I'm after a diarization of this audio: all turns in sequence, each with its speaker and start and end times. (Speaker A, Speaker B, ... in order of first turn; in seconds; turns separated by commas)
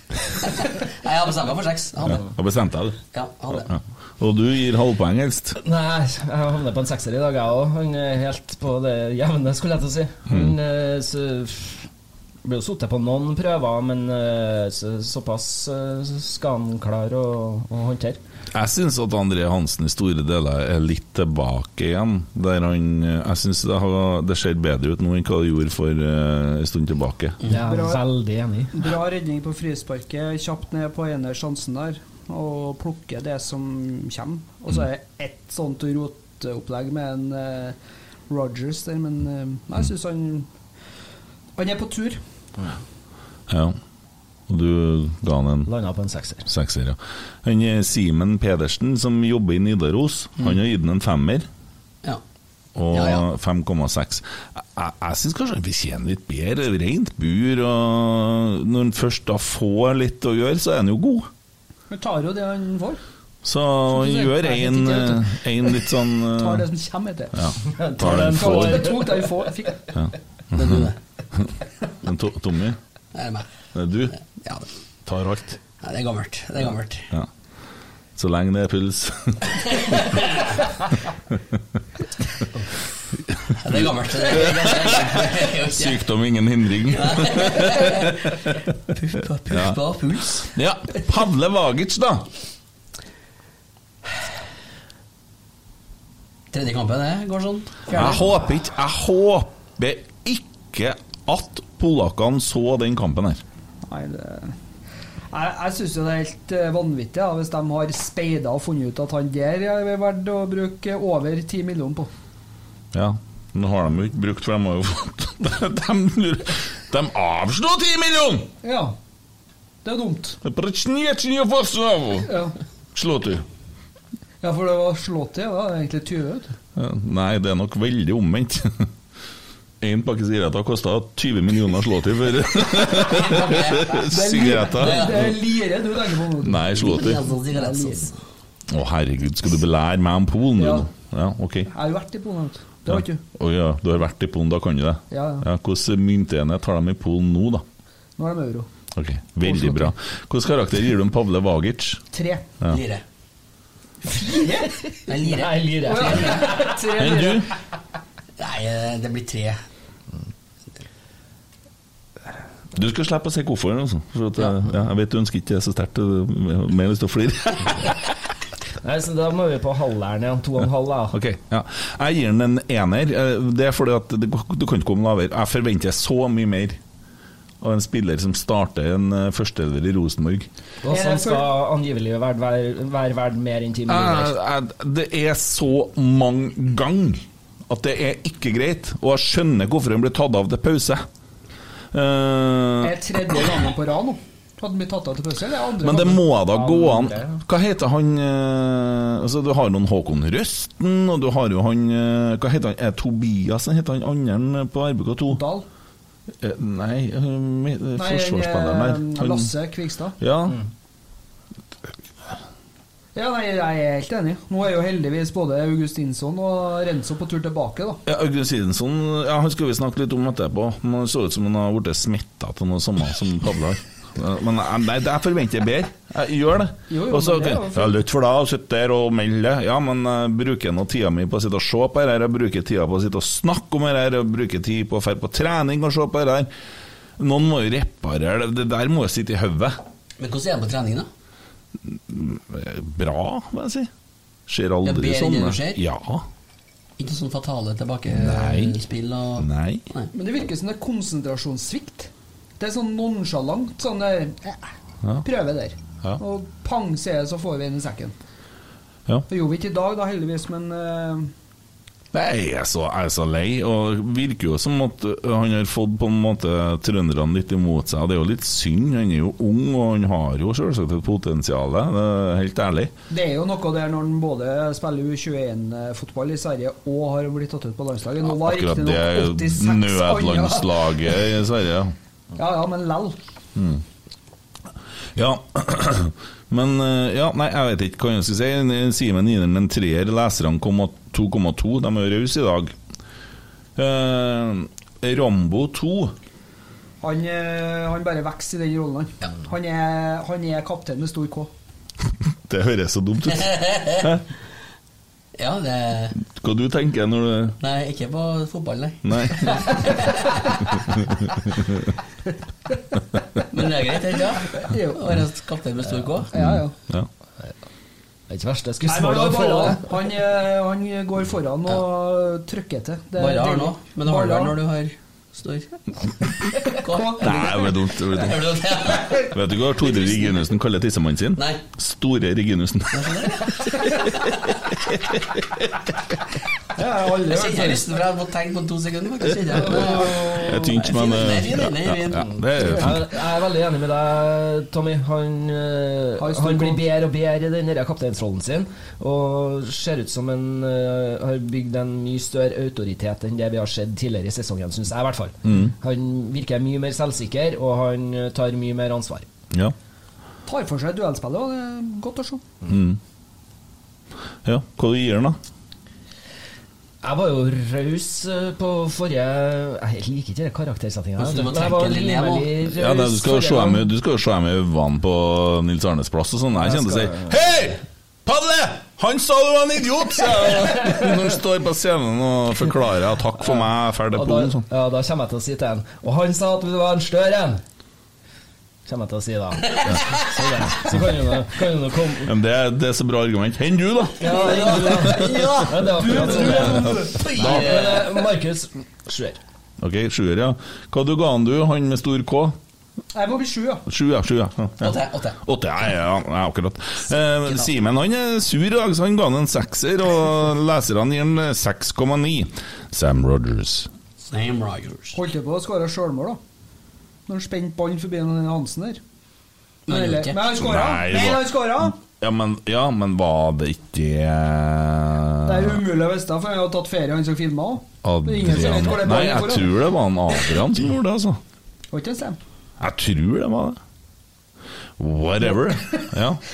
Speaker A: 0.3-2.3, Speaker B: 2.0-3.0, Speaker A: 3.1-3.7, Speaker B: 3.5-5.6, Speaker C: 5.6-11.9, Speaker B: 10.3-10.6, Speaker C: 12.4-18.2, Speaker B: 18.5-27.4, Speaker C: 27.4-28.9, Speaker D: 27.6-28.0, Speaker D: 28.7-37.8, Speaker D: 38.3-40.5, Speaker D: 41.5-42.2, Speaker B: 43.5-43.8, Speaker B: 44.5-45.7, Speaker C: 45.7-46.5, Speaker B: 46.5-51.5, Speaker B: 52.8-61.3, Speaker A: 52.9-53.3, Speaker D: 61.9-63.0, Speaker B: 63.4-66.7, Speaker D: 63.9-67.4, Speaker B: 67.3-68.9, Speaker C: 67.7-69.5, Speaker D: 68.0-69.8, Speaker B: 69.9-71.5, Speaker A: 70.5-71.0, Speaker B: 72.0-72.8, Speaker A: 73.1-73.5, Speaker B: 73.7-74.1, Speaker A: 74.1-74.7, Speaker B: 75.0-75.6, Speaker A: 75.8-77.1, Speaker B: 78.2-80.3, Speaker A: 79.6-80.3, Speaker B: 83.3-88.3, Speaker A: 83.6-86.0, Speaker A: 86.9-88.4, Speaker A: 88.9-90.5, Speaker B: 89.5-89.8, Speaker B: 90.4-92.3, Speaker A: 96.5-98.3, Speaker B: 97.9-103.4, Speaker D: 103.8-104.5, Speaker D: 105.3-112.1, Speaker B: 112.9-118.5, Speaker D: 118.6-119.0, Speaker D: 119.8-120.4, Speaker B: 120.4-122.4, Speaker D: 122.2-122.5, Speaker B: 122.9-123.4, Speaker D: 124.4-126.5, Speaker B: 126.8-128.9, Speaker B: 129.8-135.3, Speaker A: 133.0-134.1, Speaker D: 134.1-138.1, Speaker A: 134.7-135.3, Speaker B: 136.4-137.2, Speaker A: 136.7-138.2, Speaker B: 138.7-141.7, Speaker D: 140.6-140.9, Speaker D: 141.7-143.2, Speaker B: 142.9-147.6, Speaker D: 145.1-145.5, Speaker D: 148.2-148.7, Speaker B: 148.9-152.0, Speaker D: 149.4-149.9, Speaker D: 152.1-152.4, Speaker A: 152.7-153.0, Speaker D: 154.0-154.8, Speaker A: 155.1-156.4, Speaker C: 155.2-156.9, Speaker D: 155.8-157.5, Speaker B: 156.9-157.5, Speaker A: 158.4-159.6, Speaker B: 162.7-167.9, Speaker C: 168.8-171.2, Speaker B: 171.1-176.8, Speaker B: 177.6-180.5, Speaker C: 180.8-184.3, Speaker D: 180.9-181.5, Speaker B: 183.9-191.0, Speaker B: 191.9-193.0, Speaker D: 192.8-196.2, Speaker B: 195.8-205.4, Speaker C: 196.5-197.4, Speaker D: 205.3-205.7, Speaker B: 206.4-209.5, Speaker D: 207.9-210.2, Speaker B: 210.2-210.6, Speaker D: 213.1-218.0, Speaker B: 218.1-236.5, Speaker D: 226.9-227.9, Speaker B: 237.2-239.8, Speaker A: 240.2-241.1, Speaker B: 241.8-243.9, Speaker B: 244.5-246.2, Speaker A: 244.8-245.8, Speaker A: 247.0-250.1, Speaker B: 248.1-248.8, Speaker B: 249.4-249.8, Speaker D: 250.1-254.7, Speaker D: 255.2-258.1, Speaker D: 259.3-261.3, Speaker B: 262.1-272.9, Speaker D: 273.1-281.2, Speaker B: 278.2-281.9, Speaker D: 282.3-283.1, Speaker B: 283.5-283.8, Speaker B: 285.1-292.7, Speaker B: 293.8-296.1, Speaker D: 297.0-301.5, Speaker B: 302.4-304.2, Speaker A: 303.3-304.1, Speaker A: 305.4-306.2, Speaker B: 306.2-307.6, Speaker A: 307.6-310.4, Speaker B: 309.0-309.8, Speaker B: 310.9-311.8, Speaker A: 313.5-316.3, Speaker D: 314.6-315.0, Speaker D: 316.3-316.7, Speaker B: 316.3-317.1, Speaker C: 318.3-319.9, Speaker D: 318.9-324.6, Speaker A: 323.2-325.7, Speaker A: 326.6-330.4, Speaker D: 326.9-327.6, Speaker B: 327.2-335.9, Speaker A: 331.4-331.6, Speaker A: 332.9-334.3, Speaker D: 336.7-337.9, Speaker A: 337.3-342.4, Speaker B: 339.5-343.1, Speaker D: 339.6-340.7, Speaker C: 342.6-359.3, Speaker D: 346.2-346.8, Speaker B: 355.4-355.7, Speaker D: 360.4-362.4, Speaker B: 362.6-363.0, Speaker B: 364.4-365.4, Speaker C: 367.0-373.9, Speaker A: 371.2-372.5, Speaker B: 372.7-384.6, Speaker C: 376.6-377.4, Speaker C: 384.1-387.6, Speaker C: 388.9-392.3, Speaker B: 392.2-394.3, Speaker C: 394.2-399.4, Speaker A: 394.2-398.2, Speaker B: 395.1-395.5, Speaker D: 395.8-397.2, Speaker B: 396.6-397.9, Speaker B: 399.8-402.6, Speaker D: 403.1-403.8, Speaker B: 403.9-413.9, Speaker A: 404.8-405.4, Speaker A: 414.2-415.2, Speaker D: 415.1-416.4, Speaker D: 417.3-419.0, Speaker A: 419.9-420.4, Speaker D: 419.9-422.0, Speaker B: 420.5-425.8, Speaker D: 425.4-429.8, Speaker B: 428.0-431.4, Speaker D: 431.9-432.4, Speaker B: 432.8-433.8, Speaker B: 435.0-436.4, Speaker D: 435.4-436.0